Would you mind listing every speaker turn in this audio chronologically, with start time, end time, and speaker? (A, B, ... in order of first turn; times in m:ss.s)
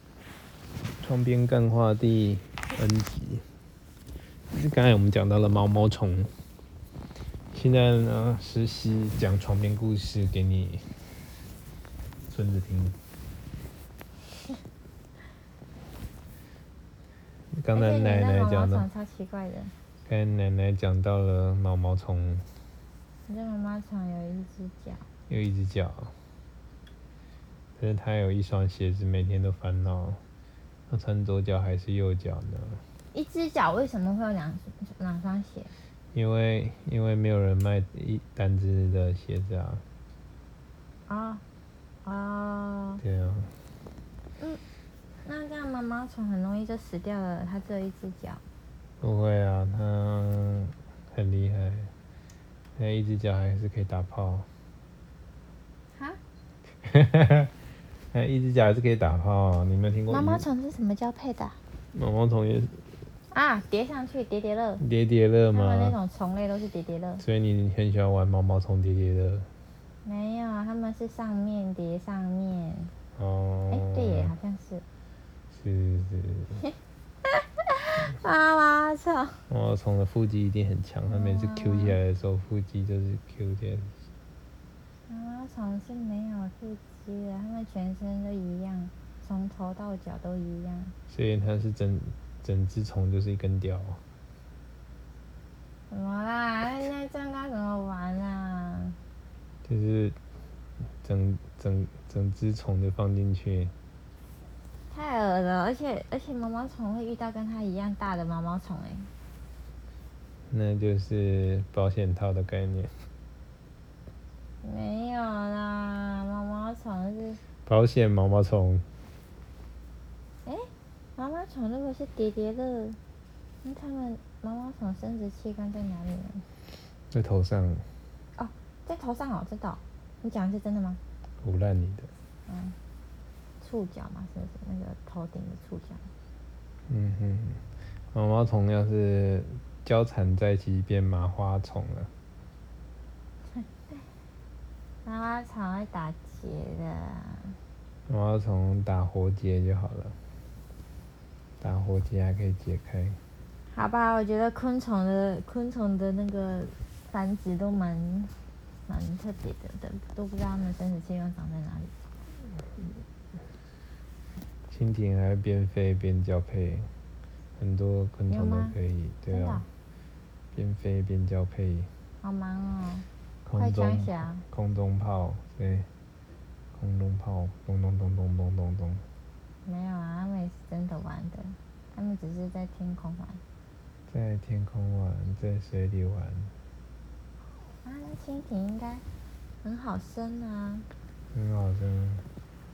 0:01.0-0:03.4 A
0:04.5-0:06.3 A
0:07.5-0:10.9 A
0:12.3-0:13.0 A
0:17.5-0:18.9 A
0:17.7-0:19.7 B
0:20.0-0:22.4 A
0:23.3-0:25.1 B
0:25.3-0:26.1 A
0:27.8-0:30.2 A
0:30.9-0:32.8 A
0:33.1-0:35.7 B
0:36.1-0:39.8 A
0:41.1-0:41.4 B
0:42.0-0:43.0 B
0:43.0-0:43.5 A
0:45.2-0:48.4 B
0:49.0-0:51.9 A
0:52.8-0:54.5 A
0:56.8-0:57.5 A
0:58.1-1:00.4 A
1:00.1-1:01.6 B
1:01.9-1:02.8 A
1:03.3-1:04.8 B
1:04.8-1:06.0 A
1:05.5-1:07.2 B
1:07.2-1:09.5 A
1:10.0-1:12.9 B
1:13.2-1:14.3 A
1:13.7-1:14.8 B
1:15.5-1:16.6 A
1:17.8-1:19.4 B
1:19.5-1:24.0 A
1:21.1-1:22.0 B
1:25.1-1:30.9 B
1:31.1-1:34.0 A
1:35.9-1:39.0 B
1:39.6-1:40.2 A
1:41.0-1:43.7 A
1:44.9-1:49.1 B
1:50.5-1:52.9 A
1:54.6-1:57.4 B
1:57.6-1:58.8 A
2:00.4-2:03.0 B
2:03.6-2:06.4 B
2:07.1-2:07.8 A
2:08.4-2:11.0 B
2:11.4-2:12.1 A
2:12.5-2:12.8 B
2:13.6-2:16.0 B
2:16.9-2:22.1 A
2:25.0-2:27.6 B
2:28.1-2:30.2 A
2:31.6-2:33.2 A
2:33.7-2:38.3 B
2:38.9-2:41.9 B
2:44.7-2:46.9 A
2:47.6-2:49.6 A
2:48.3-2:48.8 B
2:49.3-2:49.7 B
2:50.5-2:51.9 A
2:52.2-2:54.4 B
2:53.4-2:55.9 A
2:56.7-2:59.0 A
2:59.6-3:03.4 B
3:04.1-3:06.5 A
3:07.8-3:09.0 B
3:09.6-3:10.8 B
3:11.3-3:12.2 A